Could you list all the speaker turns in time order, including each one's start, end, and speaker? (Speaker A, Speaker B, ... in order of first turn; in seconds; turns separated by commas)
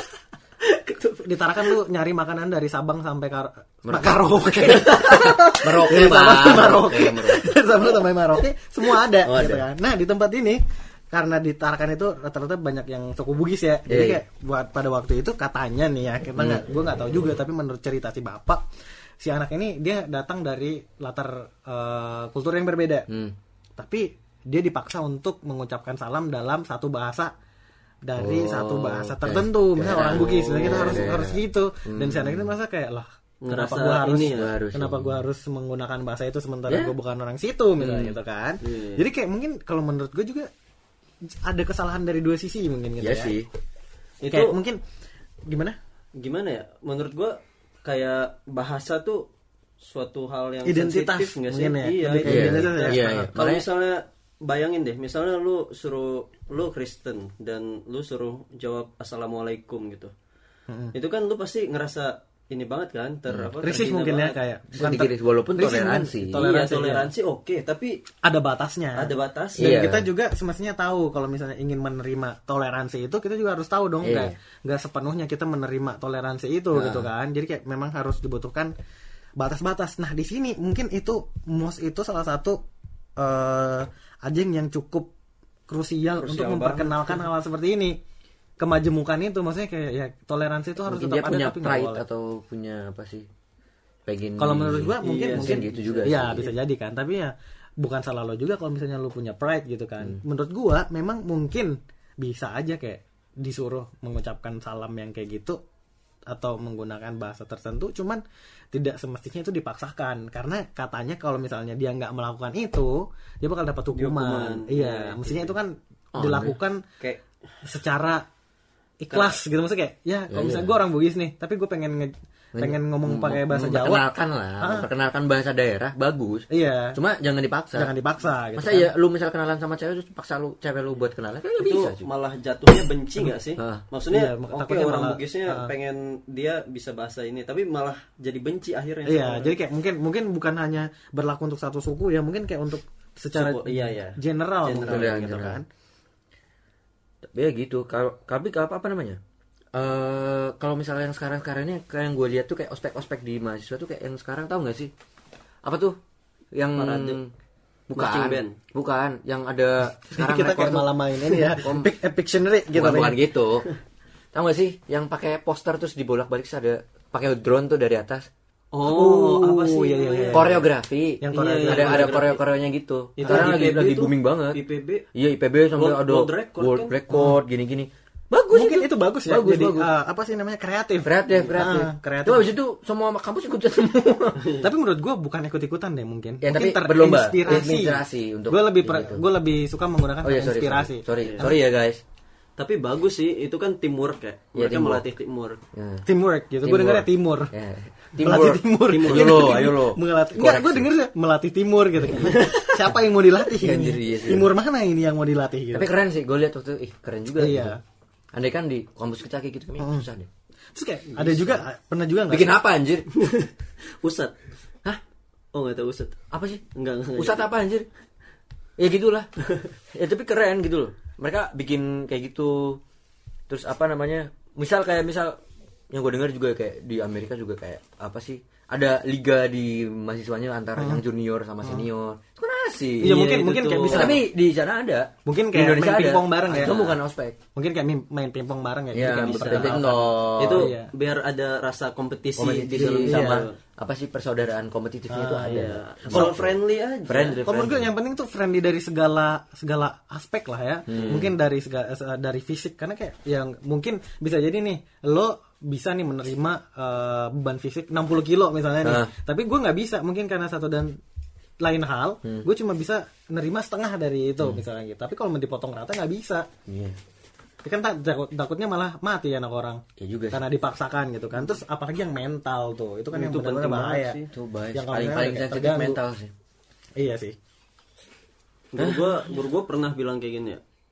Speaker A: 0.6-1.6, Speaker B: 1.2-18.6, Speaker C: 3.9-7.5, Speaker A: 4.9-5.8, Speaker C: 9.2-9.6, Speaker C: 13.9-14.2, Speaker C: 16.4-16.6, Speaker B: 19.2-23.1, Speaker C: 23.1-23.4, Speaker B: 23.8-27.3, Speaker B: 28.1-40.5, Speaker C: 28.2-32.5, Speaker A: 29.9-31.1, Speaker A: 33.5-34.5, Speaker C: 34.2-35.2, Speaker C: 36.7-36.9, Speaker C: 37.8-38.2, Speaker A: 38.6-39.0, Speaker B: 41.4-43.3, Speaker C: 43.0-43.5, Speaker A: 44.2-44.6, Speaker B: 44.3-44.8, Speaker B: 45.5-45.8, Speaker A: 46.2-49.2, Speaker A: 49.8-60.1, Speaker B: 50.7-53.3, Speaker C: 52.2-53.7, Speaker B: 60.7-61.0, Speaker A: 60.9-64.4, Speaker C: 63.3-63.5, Speaker B: 63.6-67.1, Speaker C: 64.7-66.5, Speaker A: 66.3-68.0, Speaker B: 68.2-78.7, Speaker A: 69.0-69.7, Speaker C: 69.6-70.1, Speaker C: 74.0-74.3, Speaker C: 76.7-77.1, Speaker B: 79.4-82.6, Speaker B: 83.2-85.1, Speaker B: 85.7-88.0, Speaker A: 86.2-87.2, Speaker B: 88.6-92.0, Speaker C: 90.8-93.3, Speaker C: 94.1-96.5, Speaker B: 94.4-105.6, Speaker A: 95.0-96.3, Speaker B: 106.3-108.2, Speaker B: 108.7-116.8, Speaker A: 114.0-115.5, Speaker C: 116.2-116.6, Speaker B: 117.7-118.2, Speaker B: 119.0-124.0, Speaker A: 119.1-119.4, Speaker C: 120.3-120.8, Speaker C: 122.6-127.9, Speaker B: 124.6-124.9, Speaker B: 126.5-127.0, Speaker B: 127.8-128.9, Speaker C: 128.6-132.1, Speaker A: 131.6-139.5, Speaker C: 133.6-133.8, Speaker B: 134.1-135.7, Speaker B: 139.1-145.7, Speaker A: 143.3-145.2, Speaker C: 144.9-145.6, Speaker C: 147.3-149.2, Speaker C: 149.8-154.9, Speaker C: 155.7-156.0, Speaker C: 156.6-157.3, Speaker A: 156.8-157.2, Speaker C: 157.9-161.9, Speaker A: 157.9-158.6, Speaker B: 160.1-163.2, Speaker C: 162.7-163.7, Speaker C: 164.3-168.3, Speaker A: 168.7-170.6, Speaker B: 168.8-170.6, Speaker C: 170.3-174.6, Speaker B: 171.2-172.2, Speaker A: 171.3-172.4, Speaker A: 173.2-175.1, Speaker B: 173.2-173.6, Speaker C: 175.1-179.9, Speaker A: 175.7-177.0, Speaker B: 177.1-177.4, Speaker B: 178.5-182.5, Speaker C: 181.0-184.4, Speaker A: 181.3-181.6, Speaker A: 184.4-184.7, Speaker B: 184.6-191.5, Speaker C: 186.4-189.2, Speaker C: 190.2-192.0, Speaker A: 191.2-191.5, Speaker A: 192.6-195.6, Speaker C: 194.6-195.0, Speaker C: 195.7-196.1, Speaker B: 196.1-197.5, Speaker C: 196.6-200.9, Speaker B: 198.2-205.9, Speaker A: 198.9-199.7, Speaker C: 203.5-204.5, Speaker C: 205.7-207.8, Speaker B: 207.4-207.8, Speaker C: 208.3-210.3, Speaker B: 210.8-212.5, Speaker C: 211.2-211.6, Speaker C: 212.3-213.1, Speaker A: 213.2-213.5, Speaker A: 214.0-214.3, Speaker A: 215.5-216.2, Speaker C: 216.3-216.6, Speaker A: 216.8-217.5, Speaker C: 217.2-217.9, Speaker C: 218.8-219.3, Speaker C: 219.9-222.8, Speaker C: 223.5-225.4, Speaker C: 225.9-233.2, Speaker B: 230.8-231.0, Speaker B: 233.0-234.2, Speaker A: 233.0-234.2, Speaker C: 233.9-237.4, Speaker B: 235.3-237.0, Speaker B: 237.6-240.9, Speaker C: 238.9-240.7, Speaker A: 239.0-243.6, Speaker C: 242.4-247.9, Speaker B: 242.8-243.4, Speaker B: 245.1-246.3, Speaker A: 245.5-247.4, Speaker B: 247.5-261.0, Speaker C: 250.9-251.3, Speaker C: 258.8-259.1, Speaker B: 261.6-266.5, Speaker C: 266.7-267.0, Speaker B: 267.6-274.2, Speaker C: 270.0-270.4, Speaker A: 273.1-274.3, Speaker C: 274.3-276.3, Speaker B: 274.8-276.0, Speaker B: 277.0-277.4, Speaker A: 278.7-280.6, Speaker C: 278.8-279.2